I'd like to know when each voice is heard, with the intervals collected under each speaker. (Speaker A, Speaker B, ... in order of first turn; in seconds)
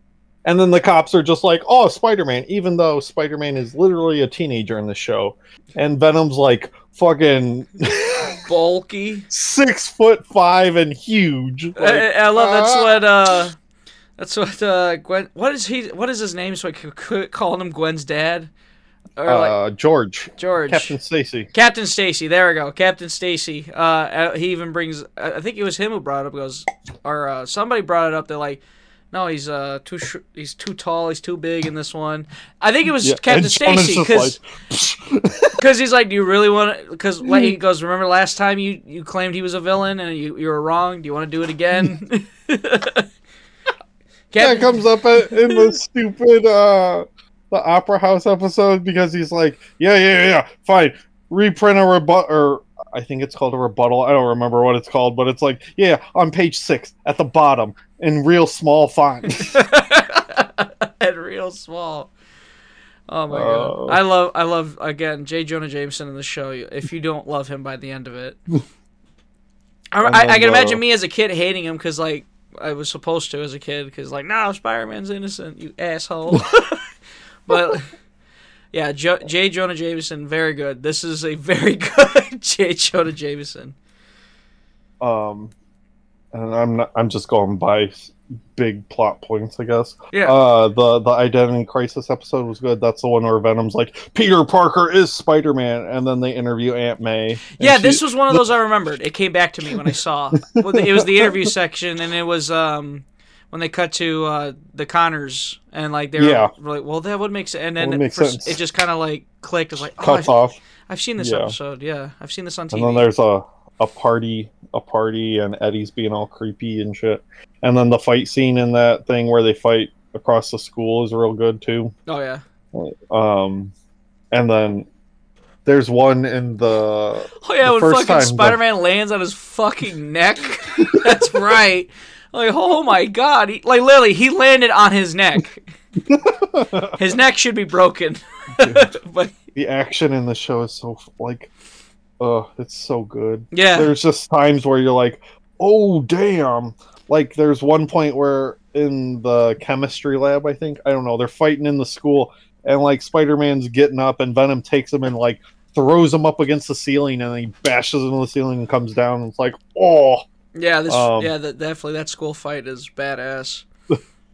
Speaker A: 0.5-8.4, 9.3-13.1, 19.3-21.5, 33.0-35.6, 37.2-37.5, 44.4-59.6, 63.3-64.0, 70.0-70.8, 85.0-85.5, 86.3-98.4, 100.4-101.5, 106.2-106.5, 107.8-108.6, 109.9-110.6, 111.2-111.5, 112.7-121.9, 122.7-123.7, 124.3-124.9, 125.7-128.6, 136.1-137.0, 138.6-138.9, 139.6-141.5, 142.2-160.3, 160.9-161.3
Speaker B: 8.4-9.3, 11.8-13.6, 14.2-18.5, 19.2-19.6, 20.4-20.9, 21.5-28.6, 29.1-34.4, 35.6-43.1, 44.3-45.8, 59.3-62.1, 63.1-68.4, 69.9-76.8, 77.5-77.9, 78.7-83.8, 97.5-113.1, 122.1-122.4, 127.4-135.7, 136.9-139.3, 143.5-143.9, 160.5-163.7